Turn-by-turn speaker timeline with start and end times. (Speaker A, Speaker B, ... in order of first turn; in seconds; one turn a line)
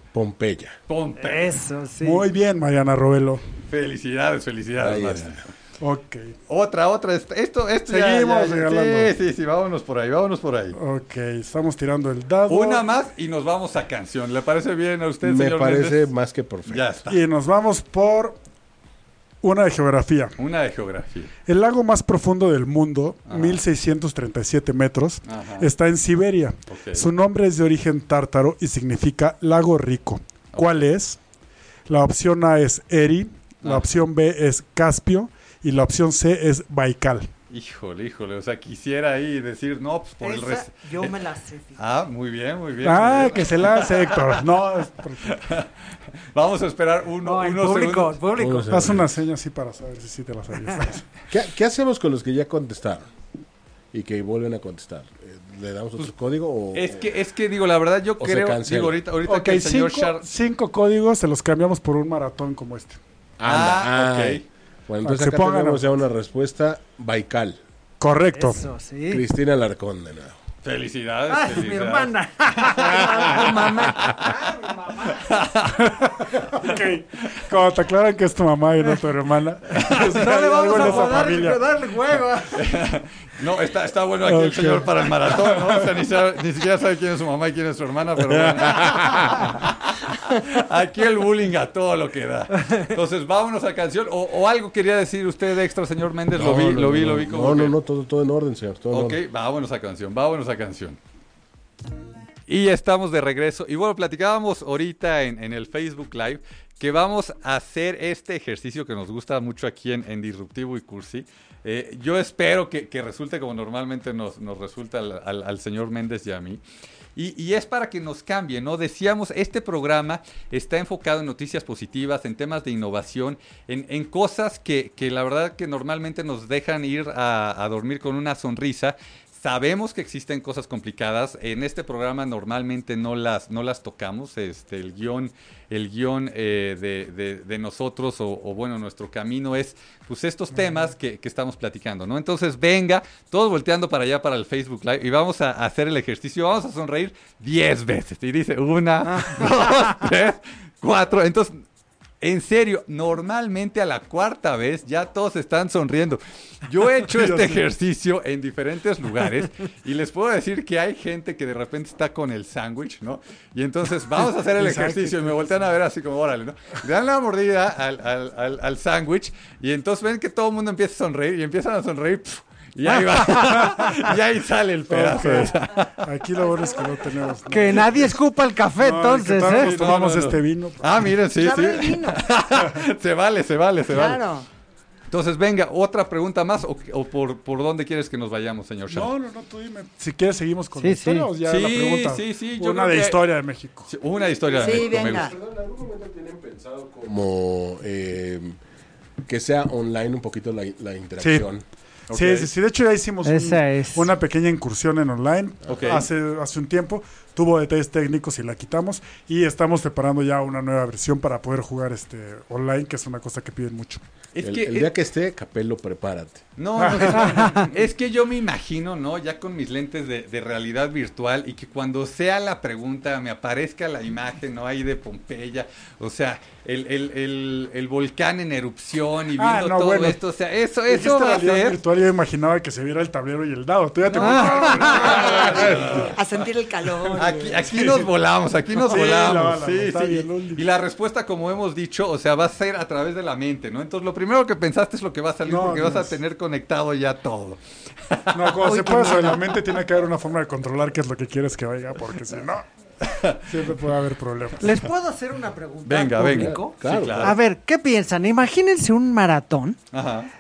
Speaker A: 0.1-0.8
Speaker B: 0.9-1.6
Speaker C: 1.2-2.3
Speaker D: 2.0-3.4
Speaker B: 3.7-5.5
Speaker A: 4.8-5.4
Speaker D: 5.8-6.4
Speaker B: 6.5-10.8
Speaker D: 7.9-9.1
Speaker D: 10.7-12.9
Speaker B: 12.5-16.1
Speaker A: 15.2-16.9
Speaker B: 16.7-17.2
Speaker D: 17.1-18.4
Speaker D: 19.4-20.4
Speaker B: 20.4-21.3
Speaker D: 21.5-31.2
Speaker B: 23.3-23.6
Speaker B: 25.3-25.7
Speaker B: 26.7-27.1
Speaker D: 31.9-37.3
Speaker B: 37.5-41.2
Speaker C: 40.2-41.8
Speaker B: 41.8-44.4
Speaker D: 42.8-45.4
Speaker B: 45.2-45.7
Speaker B: 46.3-48.2
Speaker C: 47.2-48.9
Speaker A: 48.4-49.1
Speaker D: 48.7-51.1
Speaker A: 51.3-53.1
Speaker A: 53.9-57.1
Speaker B: 56.7-60.2
Speaker A: 58.2-59.0
Speaker D: 59.2-63.0
Speaker A: 63.4-67.6
Speaker B: 63.4-64.5
Speaker D: 65.0-65.9
Speaker D: 68.0-68.7
Speaker C: 68.3-69.2
Speaker A: 69.1-70.4
Speaker B: 70.6-72.1
Speaker C: 71.3-75.5
Speaker E: 72.8-74.1
Speaker B: 73.3-74.1
Speaker B: 75.2-75.9
Speaker D: 75.8-81.7
Speaker C: 79.8-82.6
Speaker B: 80.8-81.2
Speaker B: 82.5-97.7
Speaker D: 84.2-85.9
Speaker A: 88.3-89.3
Speaker A: 96.3-99.2
Speaker B: 98.9-101.0
Speaker B: 102.5-116.6
Speaker B: 117.2-151.6
Speaker B: 152.2-175.9
Speaker D: 157.1-157.6
Speaker D: 164.5-165.6
Speaker C: 172.9-173.7
Speaker D: 174.9-178.2
Speaker C: 177.5-179.7
Speaker D: 178.8-181.1
Speaker B: 179.5-184.2
Speaker E: 181.3-182.2
Speaker E: 183.9-184.5
Speaker B: 185.1-189.1
Speaker D: 188.9-193.9
Speaker C: 190.8-191.3
Speaker B: 191.4-193.2
Speaker B: 193.9-195.3
Speaker A: 194.2-198.6
Speaker E: 194.6-195.3
Speaker A: 199.3-201.7
Speaker D: 201.2-201.5
Speaker B: 202.1-202.5
Speaker D: 202.1-214.0
Speaker C: 203.2-204.1
Speaker B: 205.7-206.1
Speaker B: 214.3-214.9
Speaker A: 214.4-216.5
Speaker B: 216.6-231.8
Speaker D: 216.8-217.6
Speaker C: 217.2-217.5
Speaker D: 229.4-230.2
Speaker D: 230.9-236.1
Speaker B: 234.1-236.2
Speaker C: 234.2-235.2
Speaker E: 235.0-237.4
Speaker D: 237.0-238.1
Speaker B: 237.2-247.6
Speaker D: 238.7-240.7
Speaker D: 245.4-246.2
Speaker B: 248.1-248.5
Speaker D: 248.3-252.7
Speaker E: 248.8-249.3
Speaker B: 253.0-253.4
Speaker D: 253.5-254.8
Speaker C: 254.6-259.8
Speaker B: 255.8-257.4
Speaker A: 256.4-257.4
Speaker B: 259.9-260.3